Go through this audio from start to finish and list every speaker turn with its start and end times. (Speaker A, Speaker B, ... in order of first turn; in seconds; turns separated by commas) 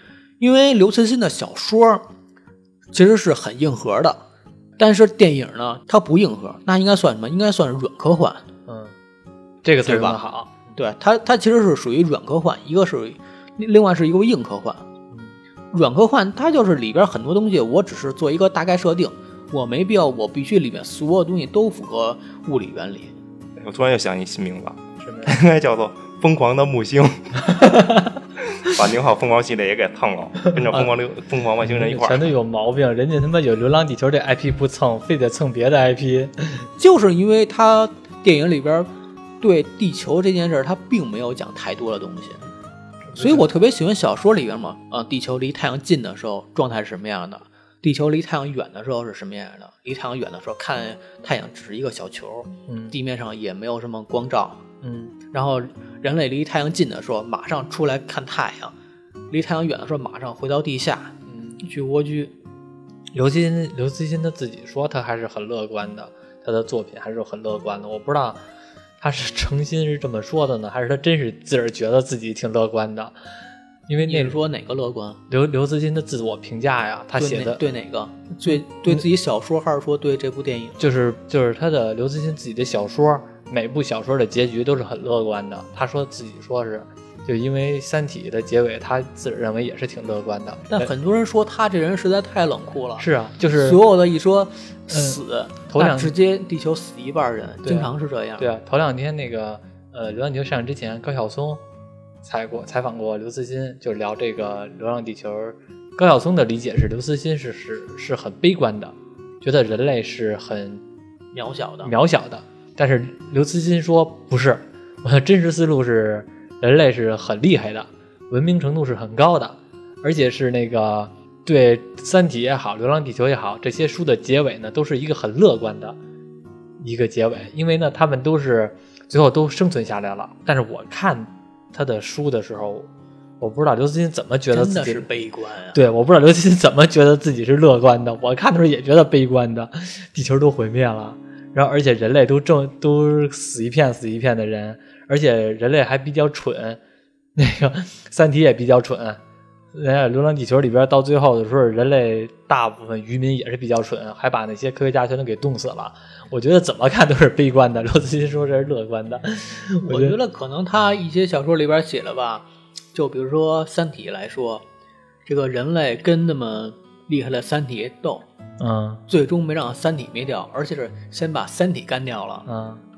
Speaker A: 0.4-2.0, Speaker A: 2.9-4.2, Speaker A: 4.8-8.4, Speaker B: 8.7-8.9, Speaker B: 9.6-10.7, Speaker A: 9.8-10.2, Speaker A: 10.7-14.9, Speaker A: 15.7-23.1, Speaker C: 23.6-27.5, Speaker B: 25.0-25.3, Speaker B: 27.4-28.2, Speaker C: 28.6-32.3, Speaker B: 30.6-30.9, Speaker B: 31.6-36.7, Speaker A: 36.8-38.9, Speaker A: 39.4-42.4, Speaker B: 43.1-43.5, Speaker A: 43.1-54.6, Speaker B: 52.7-53.0, Speaker B: 54.8-55.2, Speaker A: 55.3-58.7, Speaker A: 59.3-62.3, Speaker B: 61.3-61.6, Speaker B: 63.1-68.4, Speaker B: 69.0-73.1, Speaker B: 73.9-74.4, Speaker A: 74.1-75.2, Speaker B: 75.3-77.6, Speaker A: 77.1-80.8, Speaker B: 80.8-90.9, Speaker A: 90.7-98.5, Speaker B: 93.0-93.8, Speaker B: 94.9-96.1, Speaker B: 97.6-101.6, Speaker B: 102.2-110.8, Speaker A: 111.3-111.9, Speaker B: 111.8-126.0, Speaker B: 126.8-132.9, Speaker B: 133.4-135.1, Speaker A: 134.5-135.8, Speaker B: 135.7-146.8, Speaker B: 147.4-149.2, Speaker B: 149.7-160.2, Speaker A: 159.9-164.6, Speaker A: 165.3-168.2, Speaker B: 168.6-169.0, Speaker A: 169.1-172.4, Speaker B: 172.5-172.8